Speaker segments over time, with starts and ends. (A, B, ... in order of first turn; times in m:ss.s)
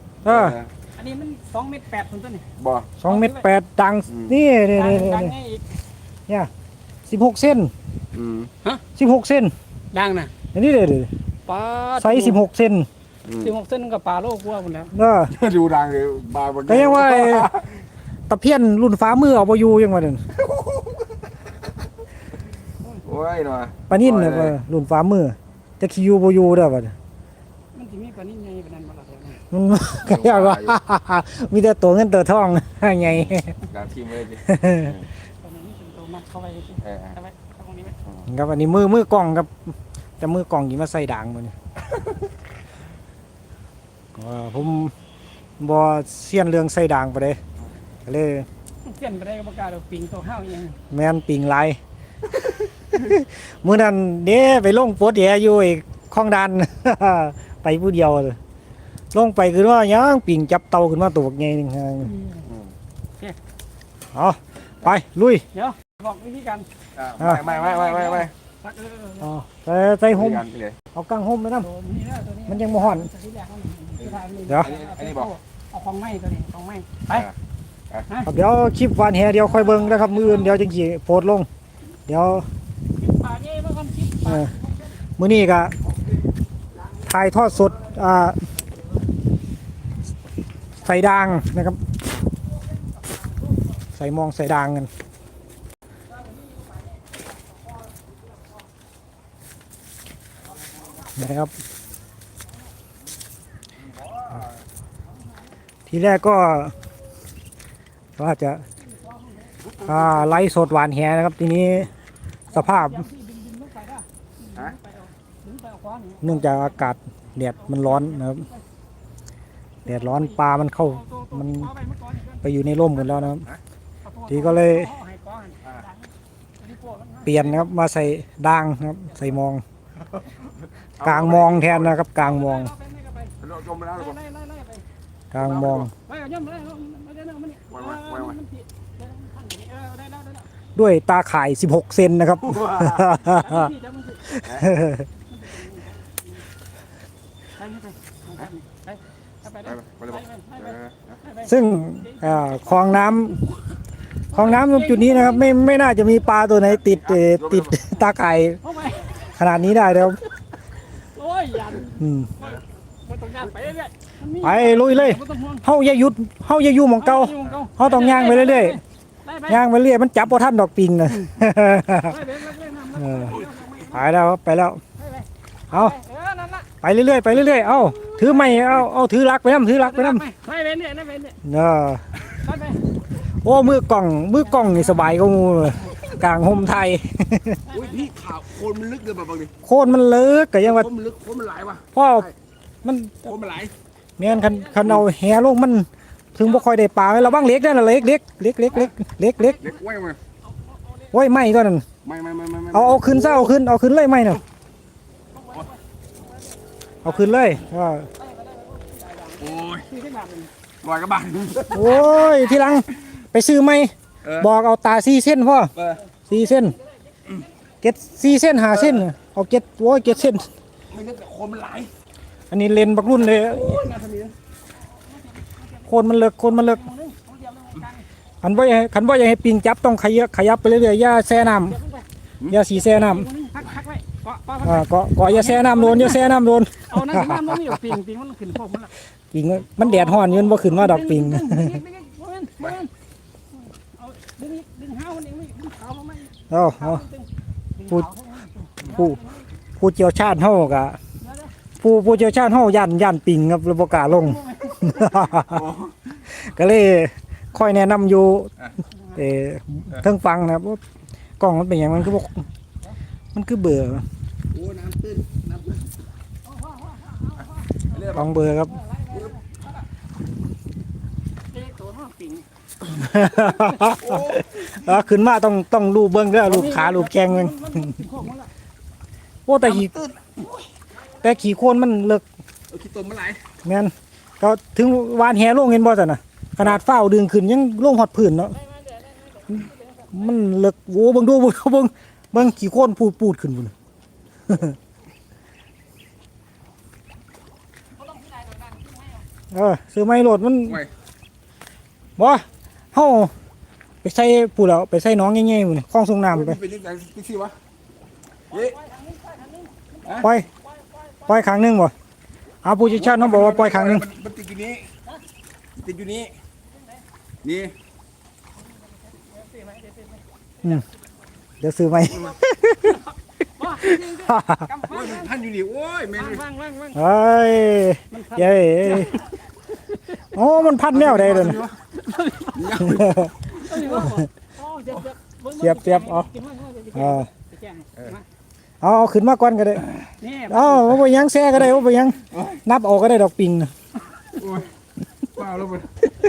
0:00.2-0:00.6 A
0:00.2-0:00.7 B
0:01.0-0:02.5 C
0:02.6-0:02.9 B
0:03.0-0:05.4 A
0:03.1-0:03.4 C
0:04.1-0:04.4 B
0:04.7-0:05.6 C
0:07.1-0:07.7 A
0:08.1-0:08.5 B
0:09.0-0:09.5 A
0:09.9-0:10.3 C
0:10.5-0:11.1 A
0:11.5-0:12.4 C
0:12.0-0:12.9 A
0:13.2-0:13.5 B
0:13.4-0:14.9 C
0:14.9-0:15.3 A
0:15.3-0:17.7 B
0:16.7-0:17.5 A
0:18.3-0:20.2 A
0:20.4-0:21.2 B
0:23.0-0:24.6 B
0:23.9-0:27.0 A
0:27.7-0:29.4 C
0:29.5-0:33.6 A
0:30.0-0:30.8 B
0:33.6-0:35.1 B
0:34.5-0:35.0 A
0:35.4-0:38.0 C
0:36.8-0:37.2 B
0:38.3-0:41.6 A
0:44.2-0:44.9 A
0:45.6-0:47.4 A
0:48.0-0:48.5 A
0:48.8-0:50.8 C
0:50.9-0:51.8 A
0:52.9-0:58.4 A
0:59.1-1:02.1 A
1:02.0-1:02.5 C
1:02.4-1:02.7 B
1:04.1-1:05.4 A
1:05.5-1:06.7 C
1:07.0-1:08.3 B
1:07.4-1:09.3 C
1:09.2-1:11.7 A
1:10.1-1:10.8 B
1:11.6-1:17.3 C
1:12.5-1:13.1 A
1:14.0-1:15.3 B
1:17.1-1:17.4 B
1:18.3-1:21.5 A
1:19.4-1:20.6 C
1:22.1-1:22.5 A
1:23.0-1:25.0 C
1:25.2-1:25.8 A
1:27.1-1:28.4 A
1:30.8-1:31.9 A
1:34.0-1:34.9 A
1:36.3-1:36.8 C
1:41.1-1:41.5 A
1:44.2-1:44.4 B
1:45.9-1:46.8 A
1:48.2-1:48.6 A
1:48.8-1:49.8 C
1:49.8-1:50.1 B
1:49.8-1:51.9 A
1:52.5-1:56.8 C
1:52.5-1:53.1 A
1:56.2-1:58.4 A
1:57.6-1:58.6 C
1:59.8-2:01.7 A
1:59.9-2:02.4 C
2:02.4-2:03.5 A
2:04.0-2:07.6 C
2:04.3-2:04.9 A
2:07.3-2:09.6 A
2:10.0-2:12.0 B
2:11.0-2:12.7 A
2:12.2-2:13.4 C
2:13.4-2:14.2 B
2:13.9-2:14.8 C
2:15.3-2:15.9 A
2:15.4-2:15.9 B
2:16.1-2:20.5 C
2:17.7-2:18.4 B
2:20.8-2:23.7 A
2:22.4-2:23.0 B
2:23.1-2:24.3 C
2:24.3-2:25.1 A
2:24.4-2:24.7 B
2:25.3-2:26.4 C
2:27.6-2:33.4 C
2:29.6-2:31.2 B
2:31.5-2:33.4 A
2:34.3-2:35.6 C
2:34.3-2:38.6 A
2:36.6-2:37.8 B
2:38.6-2:39.4 C
2:39.4-2:40.2 A
2:40.9-2:45.7 C
2:42.0-2:42.3 A
2:44.4-2:48.8 A
2:47.0-2:49.6 C
2:49.5-2:52.2 A
2:52.0-2:54.0 C
2:53.0-2:54.8 A
2:55.0-2:56.7 C
2:56.8-3:00.2 A
2:57.3-2:58.8 C
2:59.7-3:01.4 C
3:01.4-3:02.0 A
3:02.3-3:02.9 C
3:03.4-3:07.6 A
3:04.4-3:05.1 C
3:07.7-3:08.1 C
3:07.7-3:09.5 B
3:09.6-3:10.9 A
3:10.6-3:12.3 B
3:11.9-3:12.3 A
3:12.8-3:13.4 A
3:13.2-3:13.7 B
3:14.2-3:19.6 A
3:14.2-3:15.0 C
3:19.4-3:19.7 C
3:19.6-3:20.2 B
3:20.4-3:21.2 C
3:21.1-3:21.9 A
3:22.0-3:23.5 B
3:22.7-3:24.4 A
3:25.3-3:27.3 C
3:27.0-3:28.1 A
3:28.2-3:30.5 C
3:29.4-3:29.9 B
3:30.8-3:31.9 B
3:31.7-3:35.7 A
3:31.7-3:32.7 C
3:34.2-3:34.5 B
3:35.8-3:36.0 B
3:36.1-3:37.5 C
3:36.3-3:36.8 A
3:37.8-3:40.5 A
3:38.8-3:39.1 B
3:40.9-3:41.9 B
3:42.5-3:43.8 A
3:43.2-3:45.9 C
3:45.9-3:46.8 A
3:46.5-3:48.1 C
3:48.4-3:51.8 A
3:51.6-3:52.1 C
3:52.5-3:53.3 A
3:52.7-3:58.9 C
3:54.6-3:57.8 A
3:59.3-4:01.8 A
3:59.8-4:02.9 C
4:03.5-4:09.5 C
4:06.5-4:07.0 A
4:08.9-4:09.2 A
4:09.8-4:11.0 A
4:11.2-4:11.5 C
4:11.8-4:15.7 A
4:14.0-4:15.2 C
4:15.4-4:16.0 B
4:16.3-4:18.5 A
4:19.2-4:20.8 A
4:21.4-4:22.5 A
4:23.3-4:24.0 A
4:24.5-4:25.9 B
4:26.5-4:29.6 C
4:27.9-4:28.3 B
4:28.1-4:28.8 A
4:31.5-4:32.5 C
4:32.8-4:37.9 A
4:33.7-4:34.8 B
4:36.4-4:38.5 C
4:39.5-4:39.9 A
4:39.6-4:40.4 B
4:41.2-4:42.2 A
4:42.7-4:43.4 B
4:43.6-4:48.6 A
4:48.5-4:50.3 C
4:50.1-4:53.7 A
4:54.5-4:54.8 A
4:58.0-4:59.2 C
4:59.5-5:00.8 A
5:02.2-5:03.3 A
5:04.0-5:06.6 A
5:06.3-5:07.6 B
5:08.5-5:11.6 C
5:08.5-5:08.8 B
5:10.2-5:10.5 A
5:11.3-5:11.9 A
5:12.6-5:14.1 A
5:12.9-5:14.9 B
5:15.8-5:16.3 B
5:16.7-5:17.0 C
5:17.4-5:17.7 B
5:18.6-5:20.8 C
5:21.6-5:23.0 A
5:23.6-5:25.3 C
5:23.6-5:24.7 A
5:24.9-5:26.4 B
5:26.1-5:27.0 C
5:27.0-5:29.2 A
5:28.1-5:29.2 C
5:30.1-5:31.7 A
5:30.9-5:31.8 B
5:31.9-5:32.9 C
5:32.5-5:33.8 B
5:32.8-5:33.3 A
5:33.4-5:38.2 C
5:33.9-5:34.2 A
5:35.6-5:36.3 A
5:37.0-5:37.3 A
5:38.8-5:39.9 A
5:40.2-5:41.0 C
5:40.5-5:43.7 A
5:44.4-5:44.7 B
5:45.3-5:46.1 B